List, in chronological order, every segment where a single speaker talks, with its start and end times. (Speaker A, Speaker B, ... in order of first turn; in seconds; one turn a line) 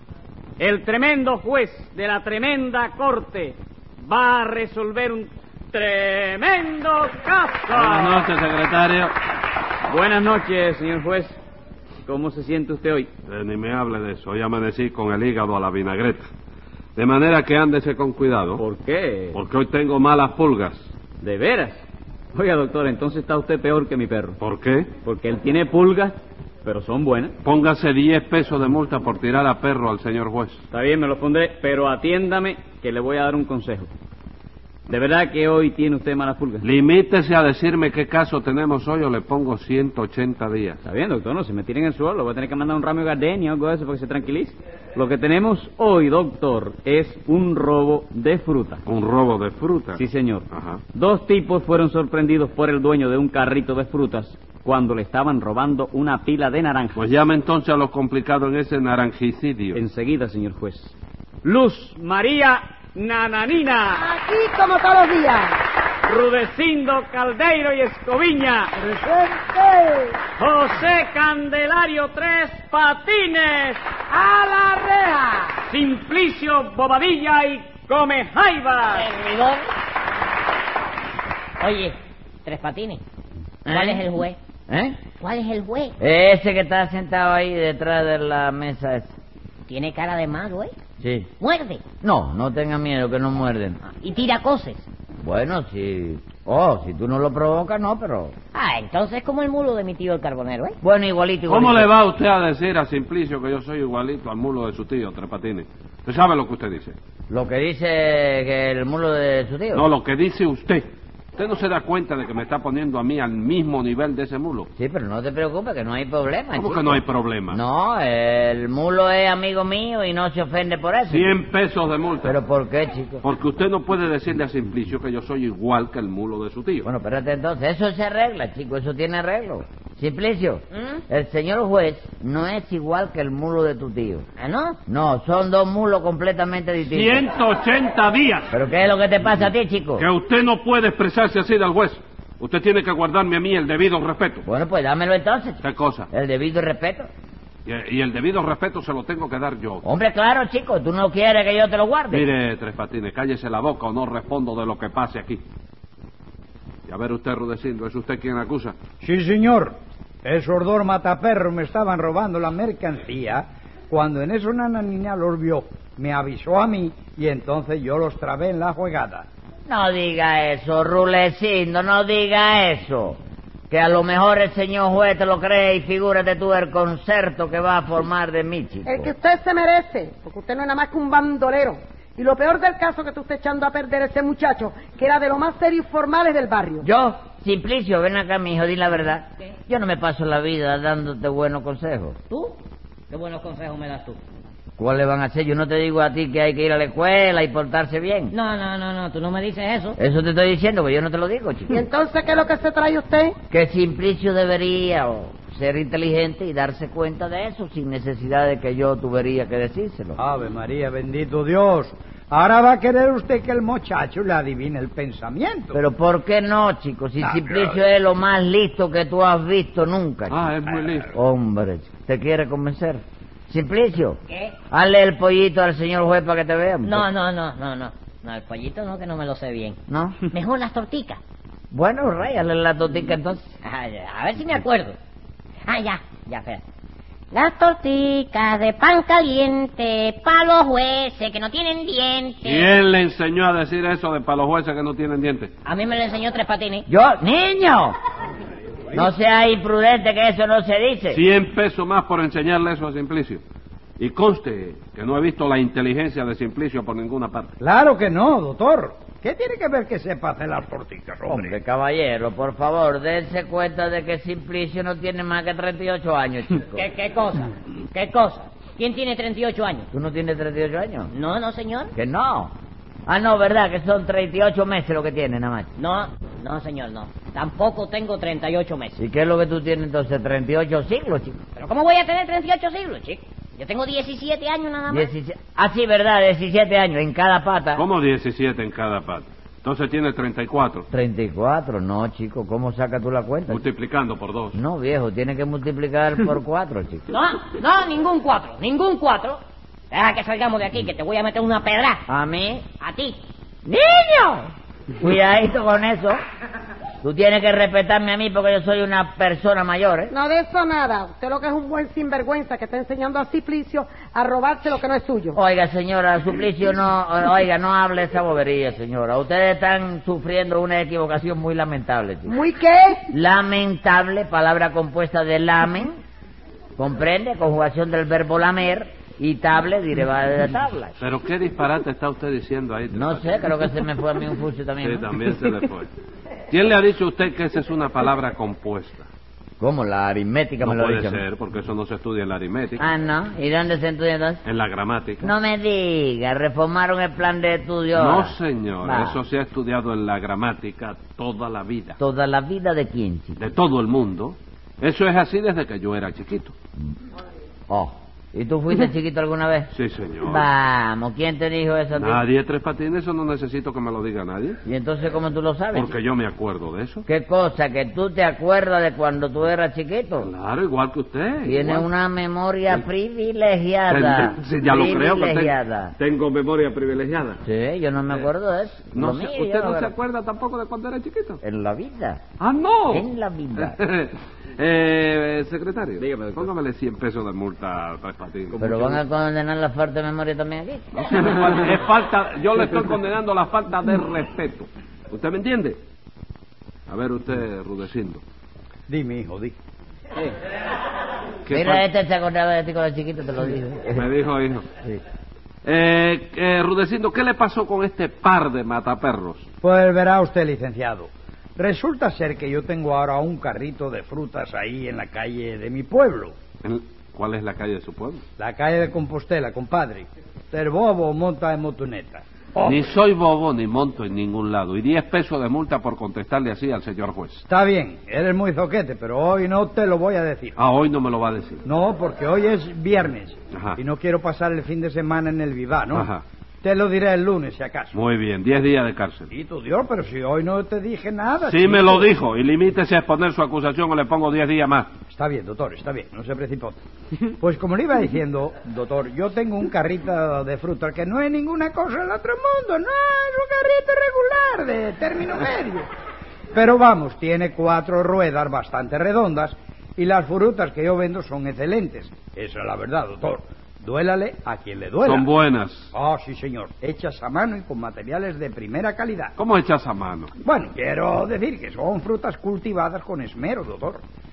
Speaker A: 0.6-8.3
Speaker B: 7.7-9.1
Speaker A: 9.9-11.4
Speaker A: 12.1-13.1
Speaker B: 13.3-16.3
Speaker B: 17.0-18.6
Speaker A: 18.6-19.4
Speaker B: 19.3-20.9
Speaker A: 21.2-21.8
Speaker A: 22.3-24.4
Speaker B: 24.4-24.9
Speaker A: 25.0-27.4
Speaker B: 27.4-30.6
Speaker A: 30.7-33.9
Speaker A: 34.9-36.7
Speaker B: 36.6-40.8
Speaker A: 40.8-48.8
Speaker B: 48.9-50.8
Speaker A: 50.0-57.1
Speaker B: 57.0-59.8
Speaker A: 59.7-64.0
Speaker C: 64.0-65.6
Speaker A: 66.1-68.8
Speaker C: 68.9-70.1
Speaker A: 70.4-73.8
Speaker D: 74.2-75.2
Speaker A: 75.7-79.1
Speaker D: 78.9-79.6
Speaker D: 81.6-83.0
Speaker E: 83.7-84.1
Speaker D: 83.7-84.4
Speaker E: 84.7-85.0
Speaker D: 85.2-86.0
Speaker E: 86.0-89.2
Speaker D: 89.7-90.8
Speaker E: 91.0-91.3
Speaker D: 91.4-91.8
Speaker E: 92.0-93.8
Speaker D: 93.8-94.8
Speaker E: 95.2-98.3
Speaker D: 98.5-100.8
Speaker E: 100.8-101.9
Speaker B: 101.5-107.0
Speaker E: 107.3-109.9
Speaker B: 109.7-114.7
Speaker E: 114.8-121.4
Speaker B: 116.5-117.6
Speaker B: 121.1-122.4
Speaker E: 122.2-123.2
Speaker B: 123.2-126.9
Speaker E: 126.8-134.3
Speaker D: 130.8-131.0
Speaker D: 134.4-134.8
Speaker E: 134.9-137.3
Speaker B: 136.8-138.5
Speaker E: 138.5-140.1
Speaker B: 140.0-144.4
Speaker E: 144.4-147.1
Speaker B: 145.6-146.1
Speaker B: 147.7-149.8
Speaker E: 149.8-152.3
Speaker B: 152.1-155.4
Speaker B: 156.9-158.8
Speaker F: 159.0-169.3
Speaker E: 169.7-173.2
Speaker E: 173.7-179.1
Speaker C: 178.9-186.8
Speaker E: 186.8-192.2
Speaker D: 192.3-192.6
Speaker D: 193.1-194.2
Speaker E: 194.8-198.3
Speaker D: 198.3-200.0
Speaker E: 200.0-201.8
Speaker C: 201.7-203.3
Speaker E: 203.5-210.2
Speaker F: 210.2-215.8
Speaker E: 215.7-220.4
Speaker F: 217.2-217.8
Speaker B: 220.3-221.1
Speaker E: 221.2-224.2
Speaker E: 224.7-227.1
Speaker D: 226.8-229.8
Speaker E: 229.9-230.2
Speaker D: 230.3-231.2
Speaker E: 231.7-233.5
Speaker D: 233.6-234.9
Speaker D: 235.7-236.6
Speaker D: 237.3-242.7
Speaker B: 242.4-245.5
Speaker D: 245.7-246.9
Speaker E: 246.9-247.9
Speaker E: 248.9-251.2
Speaker B: 251.1-253.4
Speaker B: 254.0-257.6
Speaker F: 257.6-261.6
Speaker E: 261.3-266.8
Speaker D: 266.7-269.9
Speaker E: 269.9-271.1
Speaker D: 271.1-271.9
Speaker E: 271.9-272.5
Speaker E: 273.1-275.7
Speaker D: 275.8-279.0
Speaker E: 279.0-281.4
Speaker D: 281.6-285.1
Speaker E: 284.9-287.8
Speaker B: 287.8-290.9
Speaker E: 290.9-293.6
Speaker B: 293.5-294.6
Speaker E: 294.5-297.1
Speaker D: 297.1-299.4
Speaker D: 299.9-302.0
Speaker E: 302.1-302.6
Speaker D: 302.8-303.2
Speaker E: 303.7-306.2
Speaker E: 307.0-310.1
Speaker C: 310.1-315.4
Speaker E: 315.4-322.3
Speaker C: 322.3-323.0
Speaker E: 323.1-326.0
Speaker E: 326.8-330.9
Speaker B: 331.0-333.7
Speaker E: 332.9-335.1
Speaker B: 334.8-335.9
Speaker B: 336.5-339.1
Speaker E: 339.6-341.2
Speaker B: 340.6-342.8
Speaker E: 342.8-344.4
Speaker B: 344.4-345.3
Speaker E: 345.2-349.2
Speaker B: 347.9-352.0
Speaker E: 352.0-353.4
Speaker B: 353.4-356.5
Speaker E: 357.7-359.7
Speaker B: 359.7-360.5
Speaker E: 360.2-362.2
Speaker B: 361.9-364.6
Speaker E: 364.6-366.0
Speaker B: 365.7-367.1
Speaker E: 367.1-370.3
Speaker B: 370.2-371.9
Speaker E: 371.4-375.9
Speaker B: 373.9-377.4
Speaker E: 377.4-379.9
Speaker B: 378.9-381.4
Speaker E: 381.4-382.2
Speaker B: 382.4-388.6
Speaker E: 382.9-383.8
Speaker A: 386.0-386.5
Speaker A: 388.5-389.0
Speaker E: 388.6-391.1
Speaker B: 390.9-395.8
Speaker B: 396.9-398.2
Speaker F: 398.9-399.6
Speaker B: 401.5-401.9
Speaker E: 401.5-404.1
Speaker B: 403.9-404.7
Speaker B: 405.6-409.5
Speaker F: 409.6-416.3
Speaker B: 416.6-418.2
Speaker F: 418.4-422.8
Speaker B: 422.6-427.4
Speaker F: 427.5-430.6
Speaker B: 430.6-431.6
Speaker F: 431.7-436.1
Speaker B: 435.9-436.2
Speaker F: 436.6-438.0
Speaker B: 437.9-439.3
Speaker F: 439.3-442.1
Speaker B: 441.4-444.9
Speaker F: 445.1-446.8
Speaker F: 447.4-455.9
Speaker F: 456.5-465.3
Speaker B: 465.0-465.9
Speaker F: 465.9-469.3
Speaker B: 469.4-470.3
Speaker F: 470.4-474.0